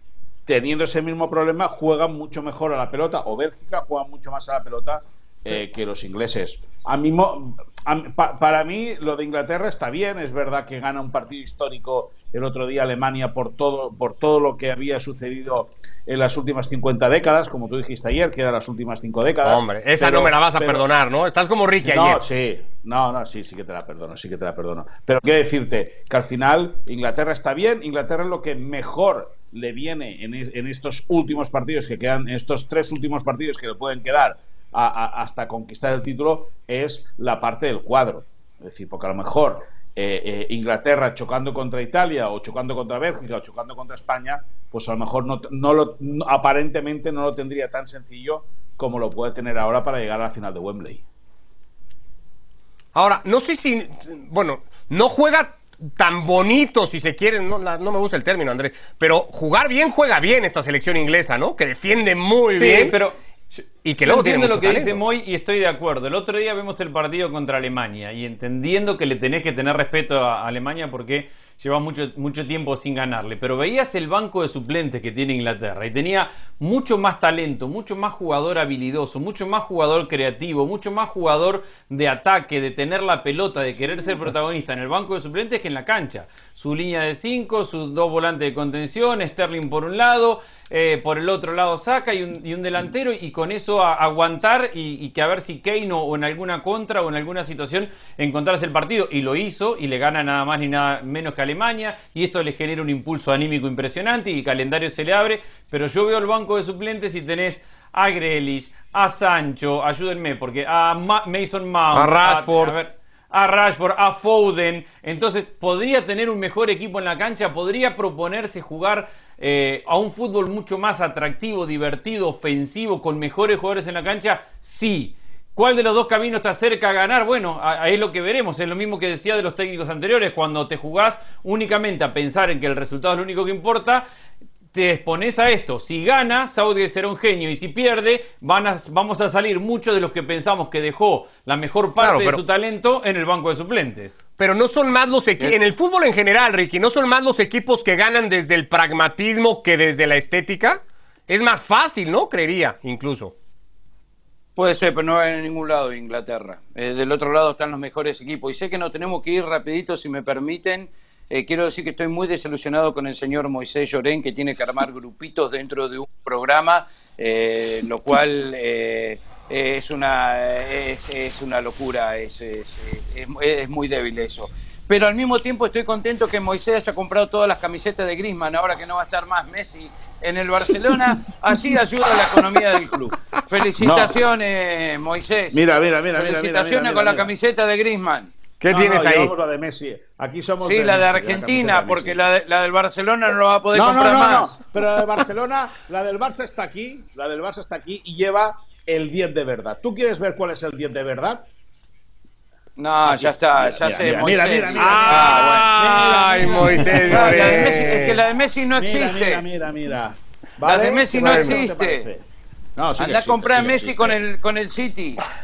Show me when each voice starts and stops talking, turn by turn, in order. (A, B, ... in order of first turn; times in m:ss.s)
0:00.5-0:20.8 A
0:19.4-0:22.2 B
0:21.8-0:51.0 A
0:52.9-1:03.0 B
1:02.5-2:14.0 C
1:03.8-1:05.0 B
1:51.9-1:52.8 B
2:14.7-2:24.1 C
2:22.0-2:22.4 B
2:24.4-2:33.3 B
2:34.6-3:05.6 D
3:03.8-3:04.2 A
3:05.5-3:07.3 A
3:06.2-3:08.3 D
3:08.6-3:09.3 B
3:08.7-3:12.2 A
3:10.6-3:14.6 D
3:13.7-3:21.5 A
3:22.8-3:25.7 D
3:23.0-3:28.0 A
3:24.8-3:28.2 B
3:27.0-3:29.4 D
3:28.7-3:34.2 A
3:30.6-3:32.0 D
3:31.2-3:31.6 B
3:33.0-3:35.2 D